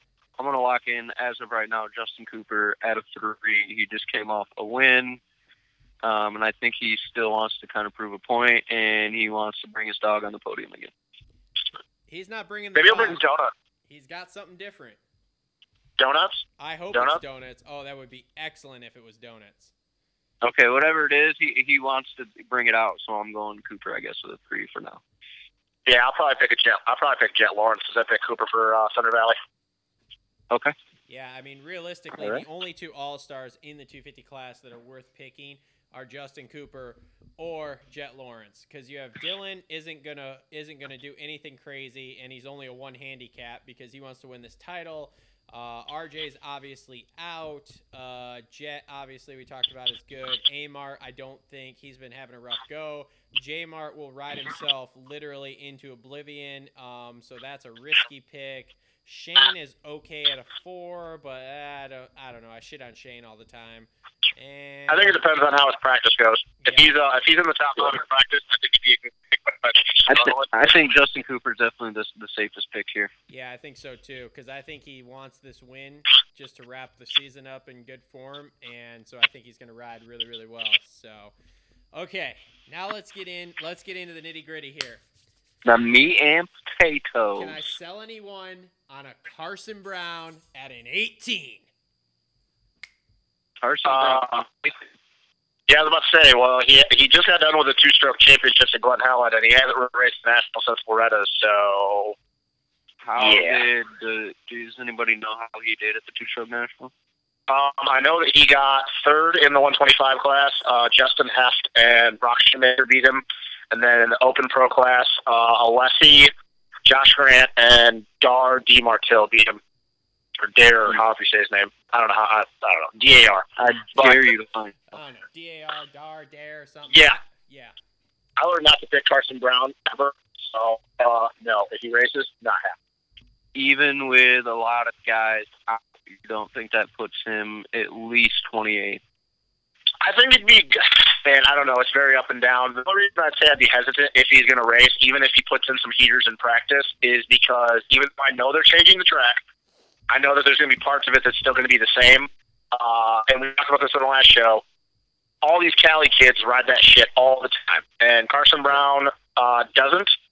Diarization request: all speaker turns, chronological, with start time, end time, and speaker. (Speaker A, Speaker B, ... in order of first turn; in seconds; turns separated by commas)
Speaker A: 0.4-5.2, Speaker A: 6.0-10.9, Speaker B: 12.1-13.2, Speaker C: 12.7-13.5, Speaker B: 13.9-15.0, Speaker C: 16.0-17.2, Speaker B: 16.6-19.7, Speaker A: 20.4-25.0, Speaker C: 25.9-29.4, Speaker B: 31.1-65.2, Speaker A: 32.2-32.4, Speaker C: 64.9-70.5, Speaker B: 66.6-66.9, Speaker A: 70.1-73.1, Speaker B: 73.3-81.3, Speaker B: 81.9-85.0, Speaker A: 85.6-87.5, Speaker B: 87.3-91.7, Speaker A: 93.6-94.3, Speaker C: 93.8-94.7, Speaker C: 95.7-102.2, Speaker A: 103.0-106.9, Speaker C: 103.2-103.6, Speaker C: 107.5-116.3, Speaker C: 116.8-119.6, Speaker C: 120.4-124.2, Speaker A: 123.7-124.9, Speaker B: 124.9-127.7, Speaker C: 126.9-127.2, Speaker C: 128.4-132.7, Speaker A: 133.5-139.0, Speaker C: 140.0-149.4, Speaker C: 150.1-154.6, Speaker C: 155.4-160.1